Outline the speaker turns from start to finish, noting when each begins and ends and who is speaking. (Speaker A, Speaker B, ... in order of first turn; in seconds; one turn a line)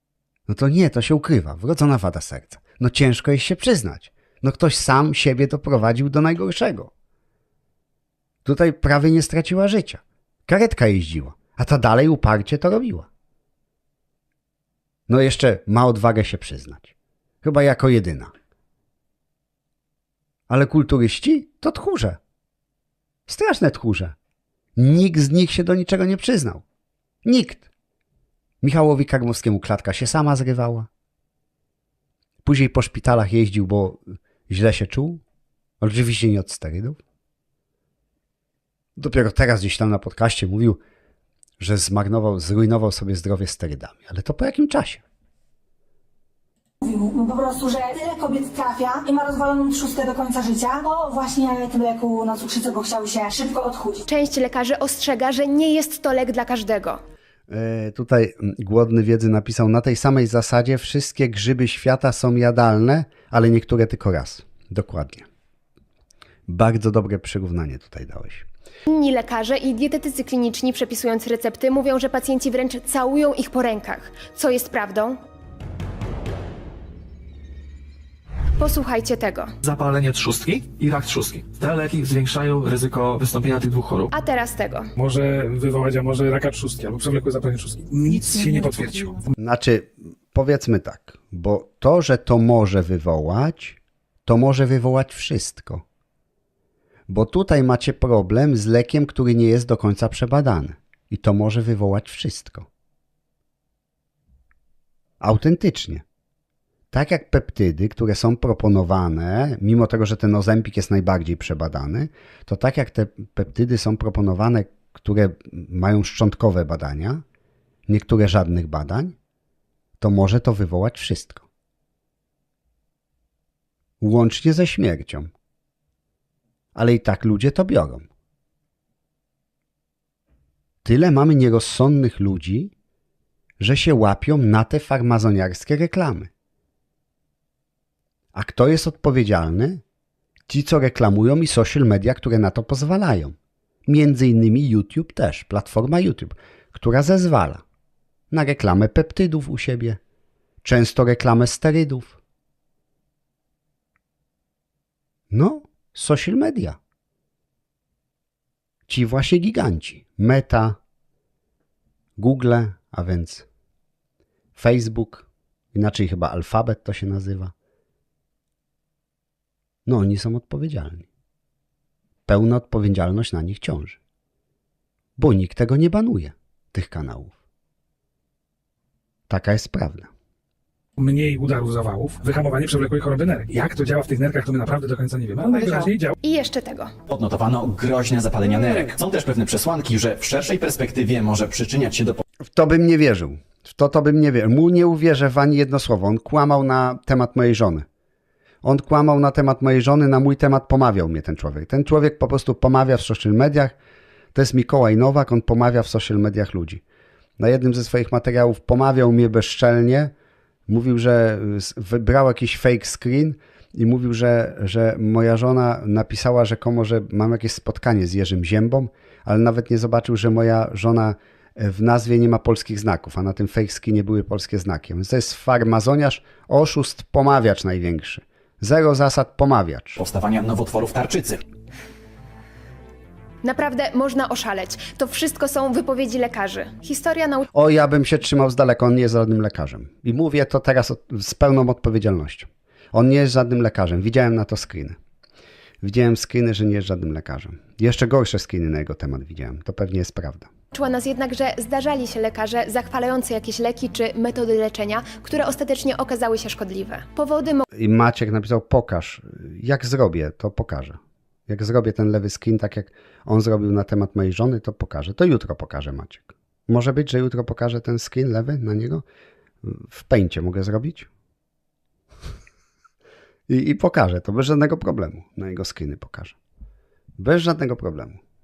Speaker A: 0.5-6.9
Speaker A: 8.4-13.1
Speaker A: 15.1-16.9
Speaker A: 17.4-18.3
Speaker A: 20.5-22.2
Speaker A: 23.3-24.1
Speaker A: 24.8-26.6
Speaker A: 27.2-27.7
Speaker A: 28.6-30.9
Speaker A: 32.5-35.2
Speaker A: 35.8-37.0
Speaker A: 39.0-40.8
Speaker A: 41.6-45.0
Speaker B: 46.8-54.0
Speaker C: 54.1-57.0
Speaker A: 57.5-65.3
Speaker A: 66.5-68.5
Speaker C: 68.9-75.2
Speaker C: 78.6-79.5
Speaker D: 79.6-84.1
Speaker C: 84.1-84.9
Speaker E: 85.0-89.3
Speaker A: 89.4-95.8
Speaker A: 97.1-102.7
Speaker A: 105.2-106.0
Speaker A: 106.9-117.2
Speaker A: 117.9-119.2
Speaker A: 120.0-121.5
Speaker A: 124.0-125.3
Speaker A: 126.8-128.1
Speaker A: 130.8-132.7
Speaker A: 133.6-136.3
Speaker A: 138.3-139.8
Speaker A: 140.5-147.6
Speaker A: 148.3-150.0
Speaker A: 150.6-152.2
Speaker A: 155.3-156.8
Speaker A: 158.9-160.8
Speaker A: 162.2-163.5
Speaker A: 164.6-167.5
Speaker A: 169.9-171.1
Speaker A: 172.3-174.0
Speaker A: 175.2-177.4
Speaker A: 179.3-180.1
Speaker E: 181.0-186.1
Speaker C: 186.2-186.9
Speaker F: 187.1-192.2
Speaker A: 192.5-197.8
Speaker A: 198.6-203.8
Speaker A: 204.3-206.8
Speaker A: 207.4-210.1
Speaker A: 210.7-230.0
Speaker F: 230.0-231.4
Speaker C: 233.4-237.5
Speaker A: 237.5-245.0
Speaker A: 245.8-250.5
Speaker C: 250.7-257.6
Speaker A: 257.7-269.0
Speaker A: 269.6-271.1
Speaker A: 273.5-276.4
Speaker A: 277.2-278.2